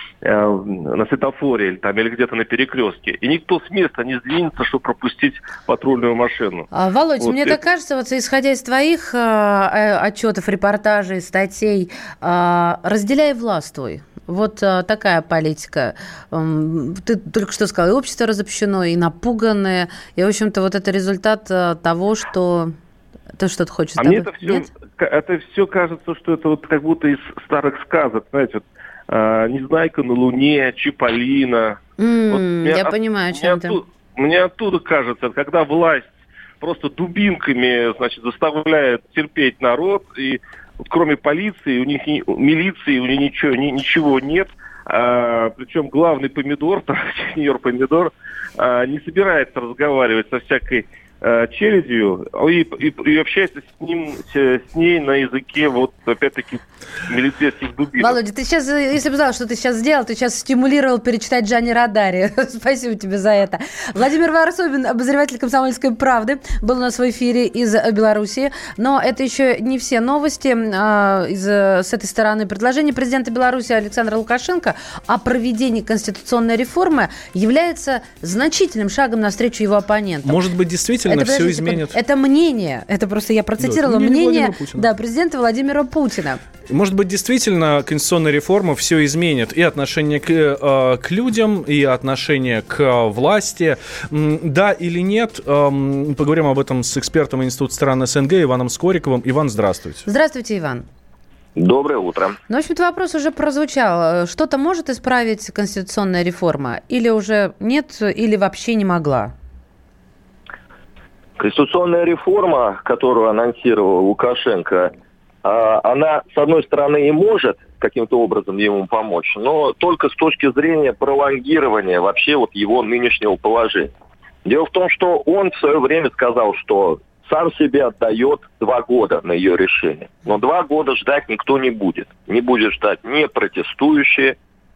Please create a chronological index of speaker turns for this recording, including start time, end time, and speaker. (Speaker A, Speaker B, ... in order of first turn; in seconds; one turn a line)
Speaker A: 0.2-6.7
Speaker B: 6.7-22.7
Speaker A: 7.2-7.6
Speaker B: 23.4-24.7
Speaker A: 24.0-58.1
Speaker B: 32.0-33.8
Speaker B: 58.0-80.4
Speaker C: 80.2-82.0
Speaker B: 81.1-86.4
Speaker C: 83.6-84.9
Speaker C: 86.7-100.0
Speaker B: 100.0-100.8
Speaker D: 101.6-102.4
Speaker B: 102.5-109.3
Speaker D: 111.4-114.9
Speaker D: 115.4-123.9
Speaker D: 124.4-134.4